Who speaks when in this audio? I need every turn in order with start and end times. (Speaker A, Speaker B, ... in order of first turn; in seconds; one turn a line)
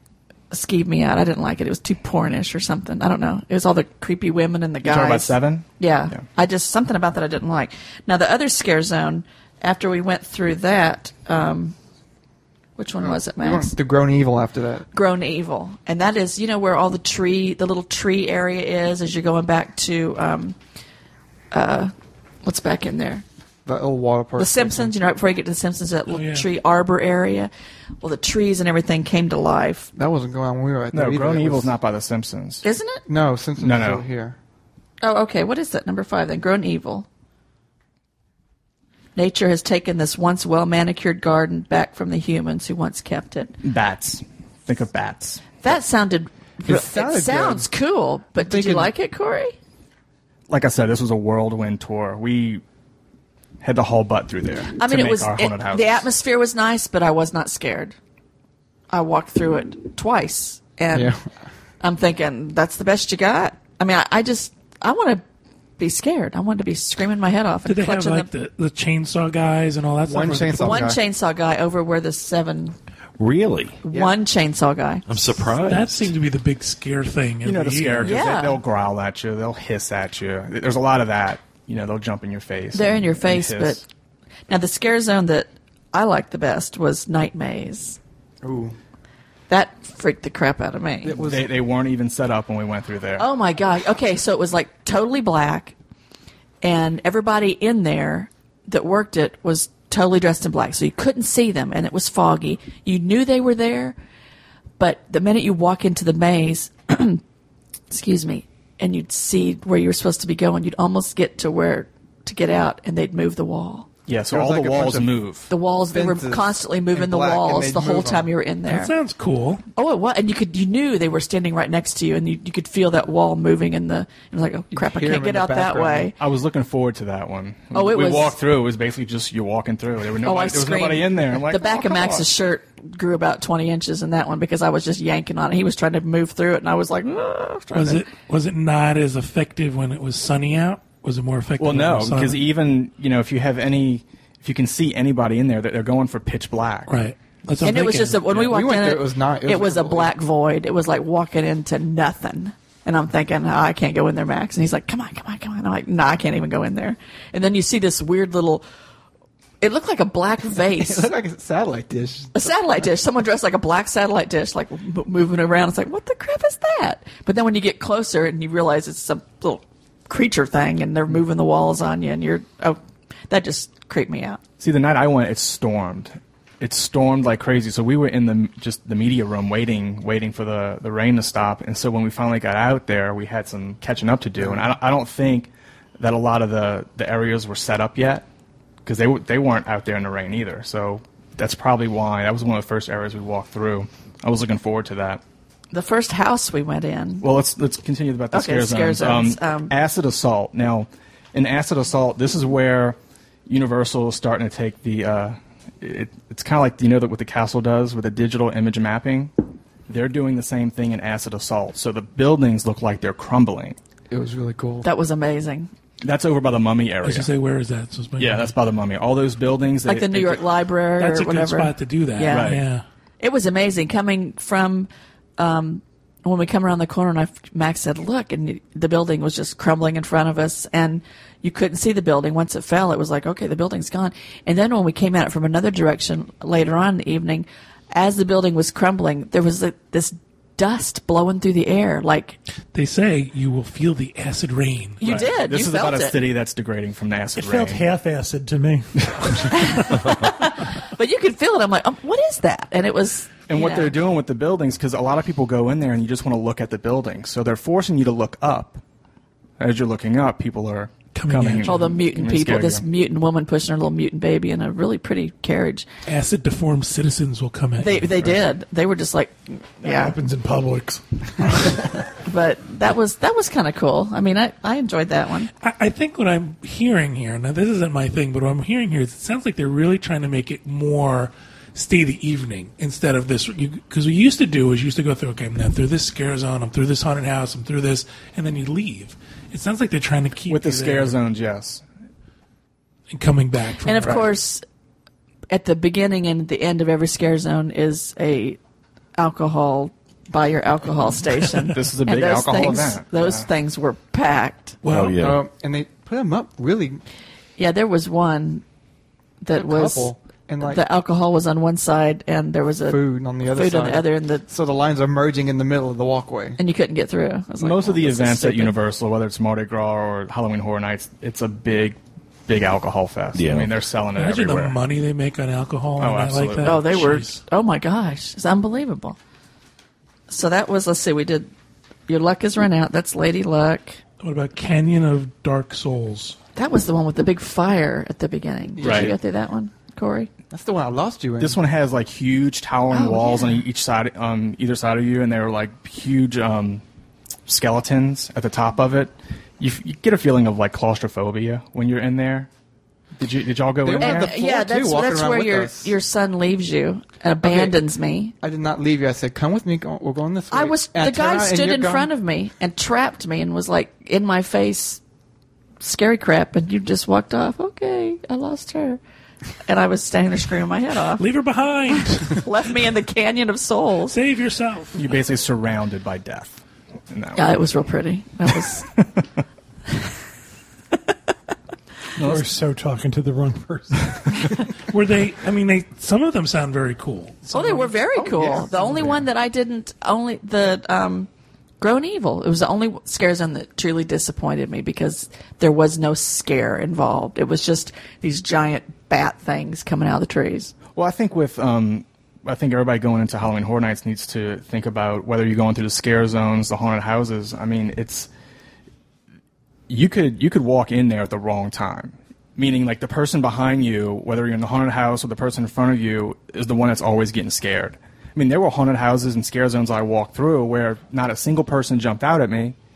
Speaker A: 0.5-11.8
Speaker B: 4.8-6.2
Speaker A: 12.8-13.7
Speaker C: 13.0-14.9
Speaker A: 14.9-20.6
Speaker A: 21.5-21.9
Speaker A: 22.4-23.2
Speaker C: 23.6-24.9
Speaker A: 24.4-27.5
Speaker D: 26.1-26.5
Speaker A: 28.0-29.9
Speaker C: 29.9-31.7
Speaker B: 30.9-32.6
Speaker A: 32.6-33.0
Speaker C: 33.1-34.4
Speaker B: 33.6-34.0
Speaker A: 35.0-37.1
Speaker A: 39.1-43.5
Speaker B: 43.6-45.6
Speaker A: 45.6-49.5
Speaker C: 46.6-47.7
Speaker C: 48.4-48.9
Speaker B: 50.5-52.6
Speaker B: 53.6-56.1
Speaker A: 54.8-57.9
Speaker A: 58.9-61.1
Speaker C: 60.9-61.2
Speaker A: 61.8-65.2
Speaker A: 65.8-68.3
Speaker D: 67.7-70.8
Speaker C: 70.0-71.0
Speaker A: 70.6-72.8
Speaker E: 73.2-73.8
Speaker A: 73.8-75.0
Speaker E: 75.1-76.1
Speaker D: 75.6-78.2
Speaker B: 77.4-83.8
Speaker A: 78.0-78.6
Speaker A: 82.7-83.8
Speaker A: 84.5-88.0
Speaker C: 88.4-88.8
Speaker A: 89.5-91.2
Speaker C: 91.0-91.6
Speaker B: 91.2-93.3
Speaker A: 93.2-95.7
Speaker A: 96.6-104.0
Speaker A: 104.8-107.2
Speaker A: 107.9-113.9
Speaker B: 114.1-115.5
Speaker C: 114.3-115.1
Speaker A: 115.5-118.9
Speaker C: 115.9-118.3
Speaker D: 118.7-119.6
Speaker A: 119.8-126.1
Speaker C: 124.7-126.1
Speaker B: 126.2-132.2
Speaker A: 127.7-128.4
Speaker A: 130.2-138.0
Speaker D: 137.7-142.4
Speaker B: 141.6-146.9
Speaker D: 146.9-148.2
Speaker A: 147.6-158.6
Speaker B: 148.2-148.6
Speaker C: 148.4-150.1
Speaker A: 159.6-161.1
Speaker C: 160.8-162.8
Speaker A: 162.3-174.4
Speaker B: 174.6-188.2
Speaker C: 184.4-184.7
Speaker B: 188.8-195.2
Speaker A: 195.7-197.3
Speaker B: 197.2-209.3
Speaker A: 198.3-199.7
Speaker B: 209.9-213.8
Speaker C: 214.1-214.8
Speaker A: 214.8-215.7
Speaker B: 216.0-217.3
Speaker D: 217.0-218.5
Speaker B: 218.2-220.5
Speaker A: 219.9-222.6
Speaker D: 221.0-222.8
Speaker B: 222.3-222.6
Speaker A: 223.2-242.4
Speaker D: 242.7-245.1
Speaker A: 245.0-246.2
Speaker B: 245.0-247.8
Speaker F: 247.3-249.1
Speaker B: 249.1-249.5
Speaker A: 249.5-254.0
Speaker B: 253.5-258.8
Speaker B: 259.6-262.9
Speaker D: 261.1-261.8
Speaker A: 261.6-265.9
Speaker D: 266.1-268.1
Speaker A: 267.8-270.1
Speaker B: 268.2-268.4
Speaker F: 269.8-271.9
Speaker A: 272.2-275.5
Speaker D: 275.6-291.1
Speaker B: 290.5-291.8
Speaker D: 293.1-294.3
Speaker A: 293.8-294.6
Speaker A: 295.5-298.6
Speaker A: 299.2-304.8
Speaker B: 301.7-303.5
Speaker D: 304.8-305.2
Speaker E: 304.9-305.4
Speaker C: 305.1-307.0
Speaker A: 307.6-308.6
Speaker A: 309.4-314.4
Speaker C: 309.5-310.8
Speaker C: 312.9-316.6
Speaker A: 316.6-318.7
Speaker B: 317.6-324.8
Speaker E: 323.3-323.7
Speaker D: 324.1-327.4
Speaker B: 326.0-326.9
Speaker A: 326.6-329.2
Speaker A: 330.3-331.5
Speaker A: 332.1-334.0
Speaker D: 334.2-336.4
Speaker A: 336.6-340.3
Speaker C: 338.8-339.1
Speaker B: 338.8-339.1
Speaker C: 340.5-341.6
Speaker B: 341.4-346.8
Speaker A: 342.9-343.6
Speaker B: 347.5-352.5
Speaker B: 353.2-354.3
Speaker C: 353.8-355.9
Speaker A: 354.0-358.3
Speaker C: 357.4-357.8
Speaker C: 358.4-362.1
Speaker A: 360.5-365.0
Speaker A: 365.8-369.0
Speaker A: 369.7-371.2
Speaker D: 371.2-372.4
Speaker A: 371.9-374.1
Speaker D: 374.1-374.9
Speaker B: 374.9-377.5
Speaker A: 377.4-378.9
Speaker B: 378.8-379.2
Speaker B: 382.2-382.5
Speaker F: 382.2-384.6
Speaker D: 384.9-387.9
Speaker A: 387.5-391.3
Speaker C: 388.1-389.1
Speaker A: 391.8-400.7
Speaker B: 400.9-408.3
Speaker B: 409.9-422.8